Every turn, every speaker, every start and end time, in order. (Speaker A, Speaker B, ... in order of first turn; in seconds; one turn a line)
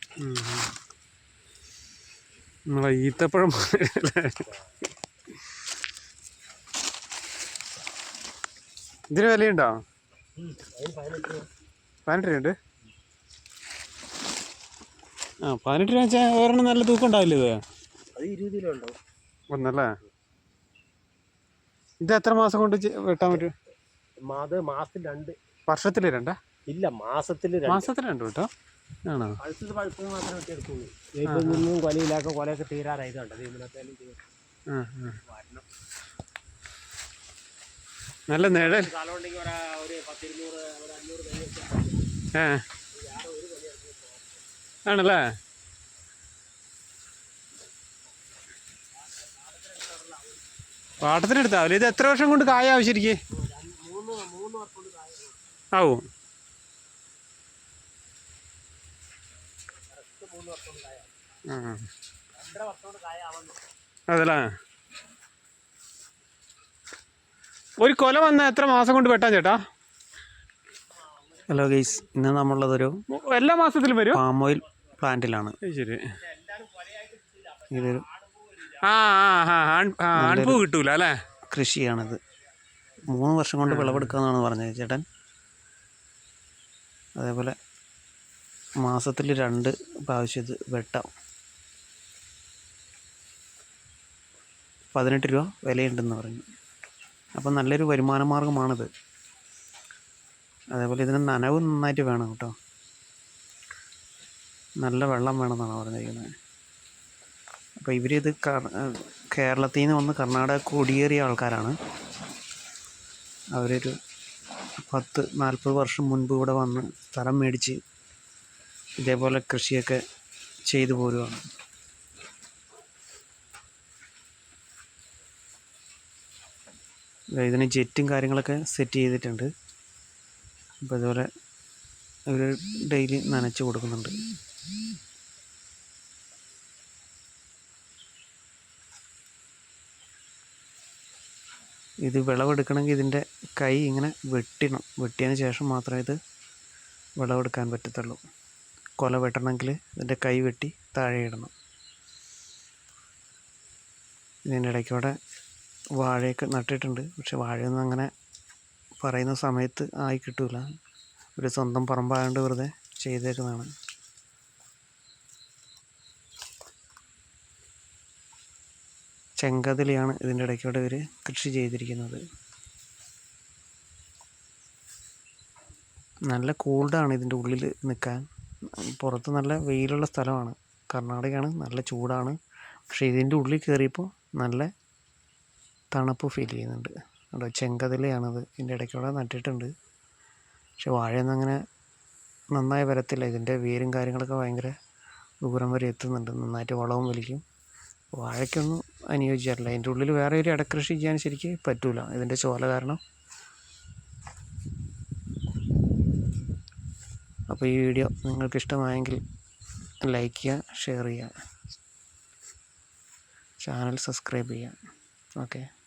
Speaker A: 0.2-0.7
Speaker A: 2.7-4.4
Speaker A: 9.1-9.8
Speaker B: 10.4-11.5
Speaker A: 12.1-12.6
Speaker A: 15.4-17.6
Speaker B: 18.2-19.0
Speaker A: 19.5-19.9
Speaker A: 22.0-23.5
Speaker B: 24.2-25.4
Speaker A: 25.7-26.4
Speaker B: 26.7-27.9
Speaker A: 27.7-28.5
Speaker A: 29.1-29.4
Speaker B: 29.4-34.2
Speaker A: 31.3-31.7
Speaker A: 34.7-35.2
Speaker B: 35.3-35.6
Speaker A: 38.3-38.9
Speaker B: 38.4-42.2
Speaker A: 42.3-42.6
Speaker B: 42.9-44.4
Speaker A: 44.9-45.3
Speaker B: 49.1-50.4
Speaker A: 51.0-53.2
Speaker B: 53.3-55.4
Speaker A: 55.7-56.0
Speaker B: 59.9-61.1
Speaker A: 61.5-61.9
Speaker B: 62.4-63.6
Speaker A: 64.1-64.5
Speaker A: 67.8-69.6
Speaker C: 71.5-73.0
Speaker A: 73.1-74.2
Speaker C: 74.1-75.5
Speaker A: 75.6-76.1
Speaker B: 76.2-78.8
Speaker C: 77.7-78.0
Speaker A: 78.8-81.2
Speaker C: 80.2-80.6
Speaker C: 81.5-82.2
Speaker C: 83.1-85.0
Speaker A: 83.7-84.2
Speaker C: 87.2-87.5
Speaker C: 88.8-91.0
Speaker C: 95.0-96.5
Speaker C: 97.4-98.9
Speaker C: 100.7-102.5
Speaker C: 104.8-106.3
Speaker C: 107.8-111.8
Speaker C: 113.5-113.9
Speaker C: 114.9-117.8
Speaker C: 119.0-120.0
Speaker C: 120.7-121.4
Speaker C: 127.4-129.5
Speaker C: 130.8-131.3
Speaker C: 132.3-134.2
Speaker C: 142.1-146.2
Speaker C: 147.2-148.2
Speaker C: 149.0-151.5
Speaker C: 154.5-155.1
Speaker C: 156.0-158.1
Speaker C: 159.0-160.7
Speaker C: 161.4-163.7
Speaker C: 169.4-172.2
Speaker C: 176.3-178.2
Speaker C: 178.7-182.4
Speaker C: 182.9-184.7
Speaker C: 185.9-189.7
Speaker C: 190.8-191.6
Speaker C: 192.5-194.7
Speaker C: 195.4-197.4
Speaker C: 198.2-203.0
Speaker C: 207.5-209.2
Speaker C: 210.0-211.3
Speaker C: 213.6-214.8
Speaker C: 215.3-215.7